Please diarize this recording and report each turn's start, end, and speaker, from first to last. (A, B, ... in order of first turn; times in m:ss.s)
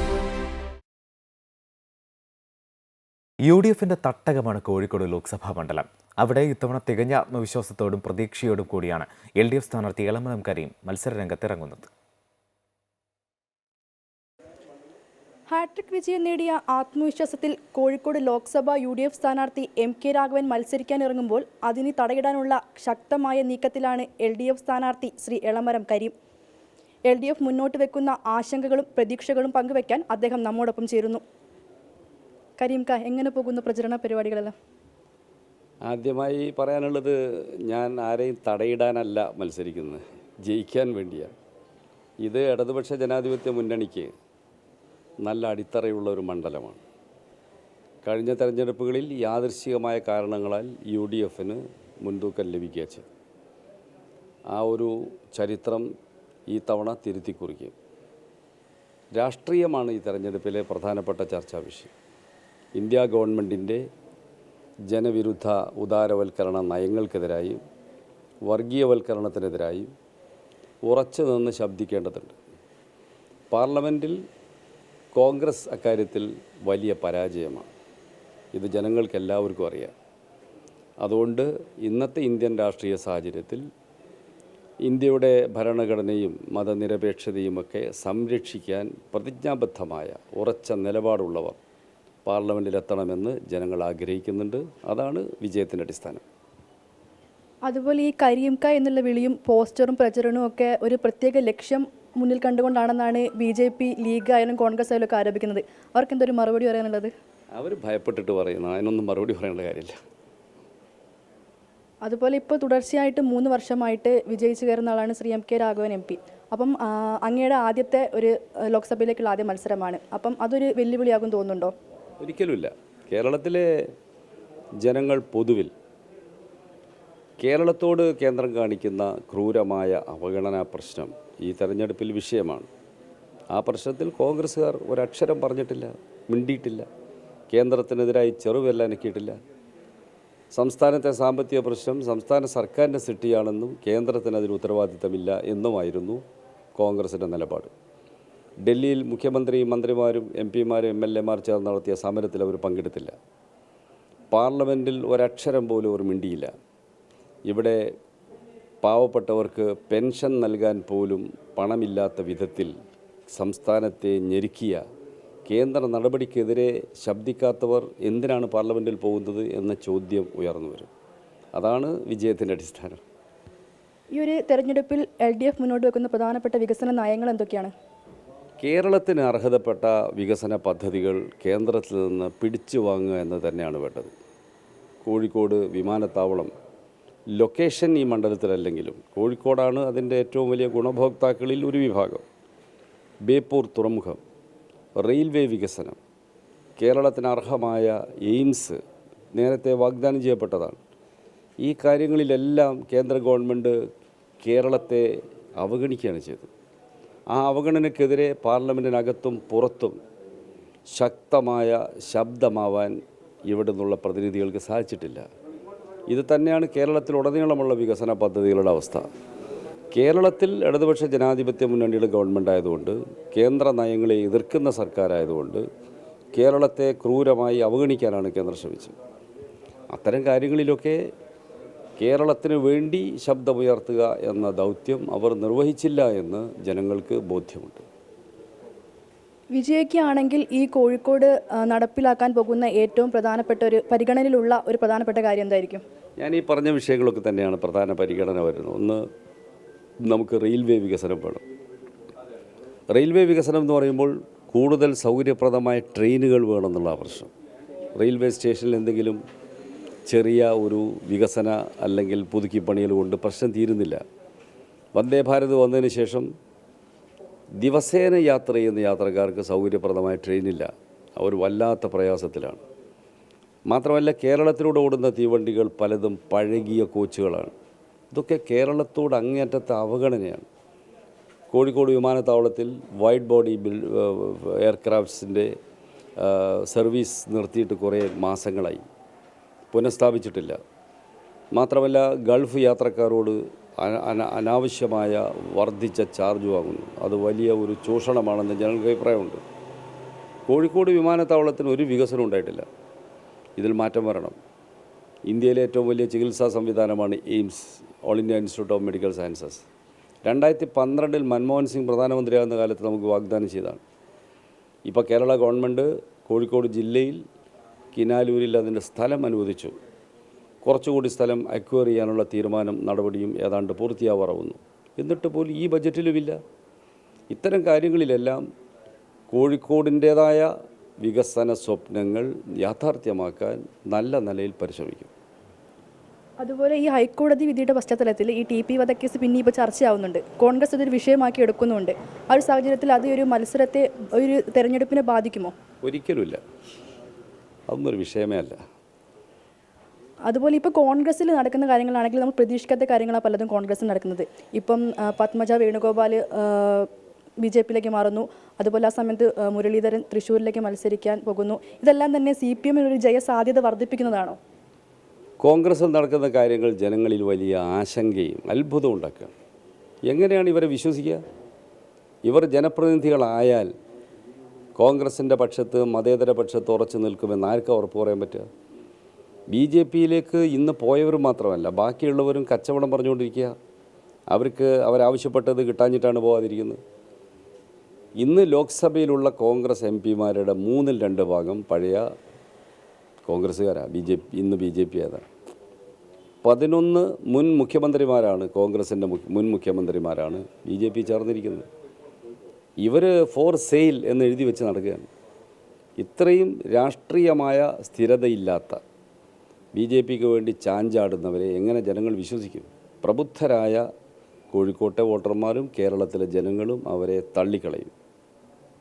0:03.4-0:11.9 A
0:15.5-0:26.1 B
0:27.1-0:31.2 B
0:32.6-0:34.5 B
0:35.8-0:41.3 C
0:42.2-0:44.1 C
0:45.2-0:46.8 C
0:48.0-0:53.1 C
0:54.5-0:55.9 C
0:56.5-0:57.7 C
0:59.1-1:01.9 C
1:02.8-1:03.8 C
1:04.9-1:07.6 C
1:08.5-1:09.9 C
1:10.8-1:12.4 C
1:13.5-1:14.2 C
1:15.1-1:17.7 C
1:18.5-1:19.9 C
1:21.0-1:23.6 C
1:24.8-1:31.6 C
1:32.2-1:36.2 C
1:37.7-1:47.1 B
1:47.5-1:49.9 C
1:52.0-2:01.7 B
2:02.2-2:03.9 C
2:04.8-2:05.7 C
2:07.4-2:12.7 C
2:13.5-2:16.9 C
2:17.5-2:19.4 C
2:20.5-2:26.2 C
2:26.8-2:27.7 C
2:28.6-2:33.1 C
2:34.3-2:36.5 C
2:37.5-2:37.9 C
2:38.8-2:42.7 C
2:43.3-2:44.8 C
2:45.5-2:50.9 C
2:51.5-2:53.0 C
2:54.1-2:57.7 B
2:58.6-3:04.1 C
3:05.0-3:06.5 C
3:07.4-3:12.2 C
3:13.3-3:14.2 C
3:15.0-3:16.0 C
3:16.8-3:18.8 C
3:19.3-3:20.8 C
3:21.6-3:23.8 C
3:24.4-3:26.5 C
3:27.3-3:30.0 C
3:30.9-3:35.2 C
3:36.1-3:39.1 C
3:39.9-3:45.6 C
3:46.3-3:48.9 C
3:49.9-3:51.0 C
3:52.0-3:57.8 C
3:59.5-4:05.8 B
4:06.2-4:09.0 C
4:10.0-4:11.4 C
4:12.9-4:17.3 C
4:17.9-4:19.2 C
4:20.1-4:24.0 C
4:24.9-4:26.3 C
4:27.6-4:32.6 C
4:33.7-4:37.5 C
4:38.1-4:40.5 C
4:41.5-4:45.5 C
4:46.2-4:48.8 C
4:49.7-4:50.6 C
4:51.5-4:59.4 C
5:00.5-5:02.6 C
5:03.6-5:04.4 C
5:05.3-5:09.7 C
5:10.2-5:13.8 C
5:14.9-5:17.2 C
5:17.9-5:19.7 C
5:20.6-5:26.4 C
5:27.3-5:28.4 C
5:29.3-5:30.5 C
5:31.0-5:35.1 C
5:36.4-5:45.5 B
5:45.8-5:46.4 C
5:47.7-5:48.6 C
5:50.3-5:56.9 B
5:57.4-6:04.4 B
6:05.4-6:09.3 C
6:10.1-6:11.2 C
6:12.2-6:13.7 C
6:14.8-6:18.5 C
6:19.5-6:23.5 C
6:24.3-6:26.8 C
6:28.2-6:32.0 C
6:33.3-6:35.2 C
6:36.4-6:41.7 C
6:42.8-6:45.1 C
6:46.0-6:48.8 C
6:49.7-6:53.8 C
6:54.5-6:57.9 C